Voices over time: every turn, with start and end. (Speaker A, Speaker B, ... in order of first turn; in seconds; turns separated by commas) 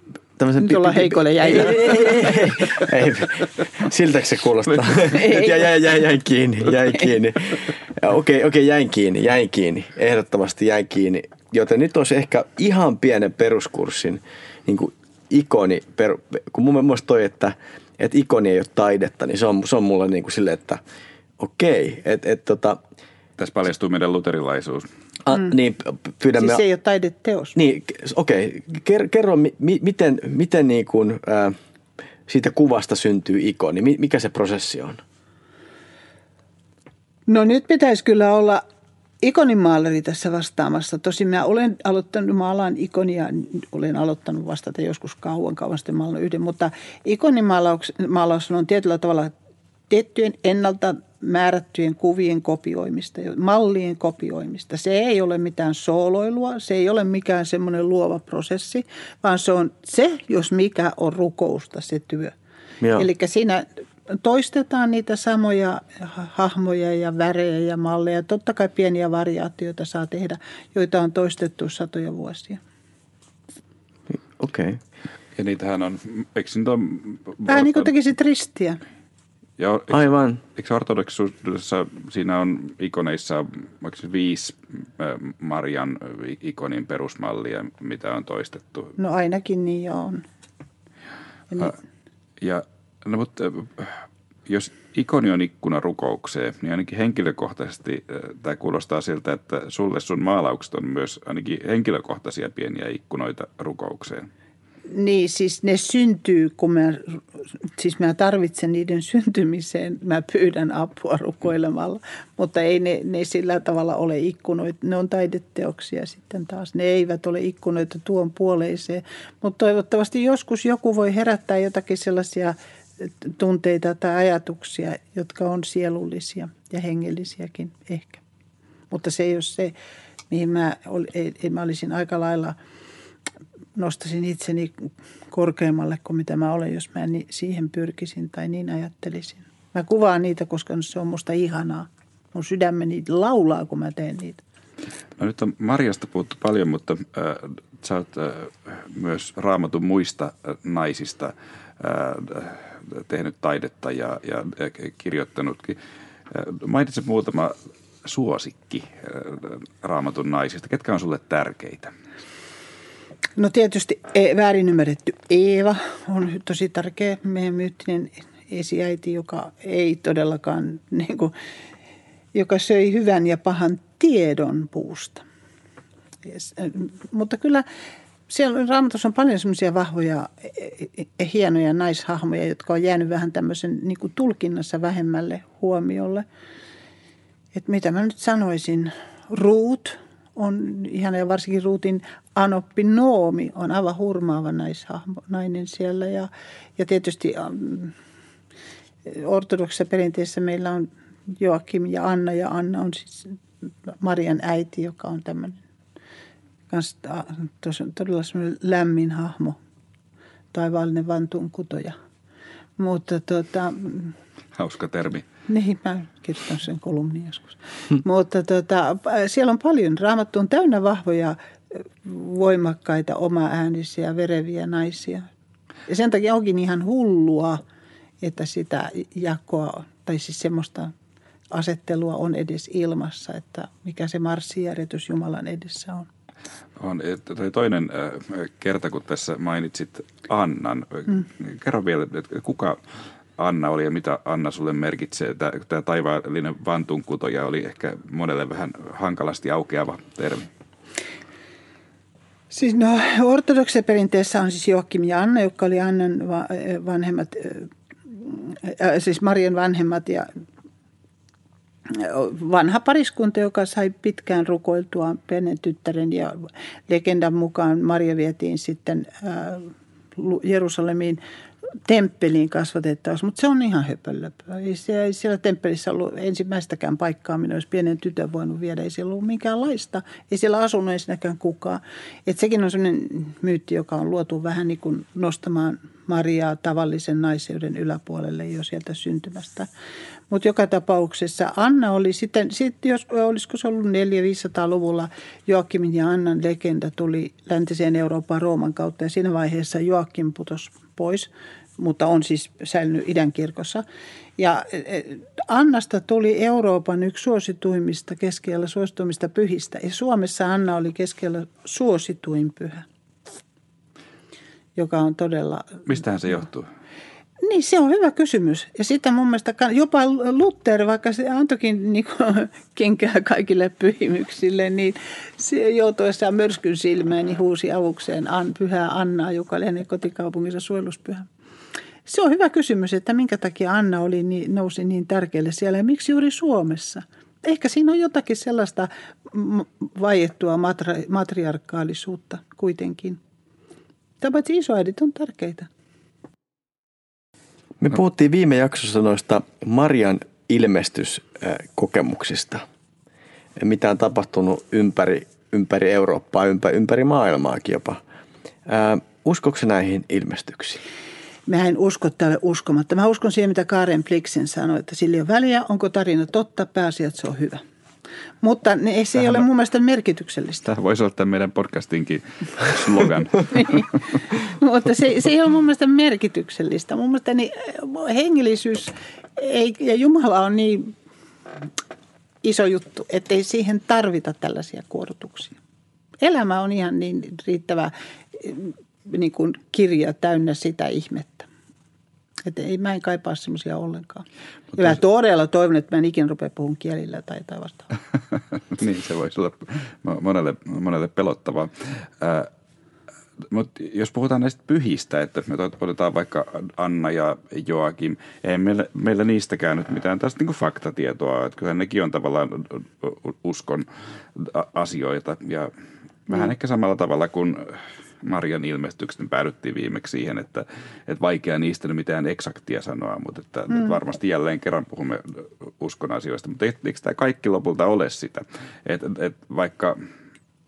Speaker A: 0.4-20.8, Speaker B: 0.6-2.4, Speaker B: 5.1-5.7, Speaker A: 21.4-22.8, Speaker C: 23.4-24.9, Speaker A: 25.3-26.6, Speaker B: 26.4-27.6, Speaker A: 27.6-31.6, Speaker A: 32.3-35.0, Speaker B: 37.3-38.6, Speaker B: 39.2-49.3, Speaker B: 49.9-62.4, Speaker A: 62.8-63.1, Speaker B: 63.0-72.6, Speaker A: 74.1-74.8, Speaker C: 75.3-77.9, Speaker B: 77.5-78.8, Speaker C: 79.6-89.0, Speaker A: 79.9-80.4, Speaker B: 89.0-90.2, Speaker C: 92.4-104.3, Speaker B: 104.9-107.2, Speaker B: 107.8-128.2, Speaker B: 128.9-129.7, Speaker B: 130.3-132.6, Speaker B: 133.8-144.4, Speaker C: 145.2-155.8, Speaker C: 156.3-161.9, Speaker B: 163.4-171.3, Speaker B: 172.3-175.2, Speaker B: 176.2-177.7, Speaker B: 178.3-186.2, Speaker B: 187.5-197.9, Speaker B: 199.1-203.4, Speaker B: 203.9-205.6, Speaker B: 206.7-209.6, Speaker B: 210.5-212.0, Speaker B: 212.8-214.2, Speaker C: 214.6-215.3, Speaker B: 215.5-225.3, Speaker B: 225.9-227.6, Speaker B: 228.2-230.9, Speaker B: 231.5-236.1, Speaker C: 236.8-242.8, Speaker C: 243.4-250.5, Speaker B: 252.5-260.3, Speaker B: 261.9-271.2, Speaker B: 271.9-289.7, Speaker B: 290.3-303.8, Speaker B: 304.4-312.9, Speaker B: 314.8-315.9, Speaker C: 315.9-316.7, Speaker B: 317.4-331.3, Speaker B: 332.1-343.2, Speaker B: 344.2-345.7, Speaker A: 347.8-352.6, Speaker A: 353.6-358.0, Speaker A: 358.7-360.8, Speaker B: 361.5-367.6, Speaker B: 368.4-370.7, Speaker C: 370.7-373.9, Speaker B: 373.5-380.9, Speaker B: 382.4-385.6, Speaker B: 386.2-391.5, Speaker B: 392.4-394.2, Speaker B: 394.8-397.9, Speaker C: 398.7-402.5, Speaker C: 403.5-415.7, Speaker C: 416.3-430.1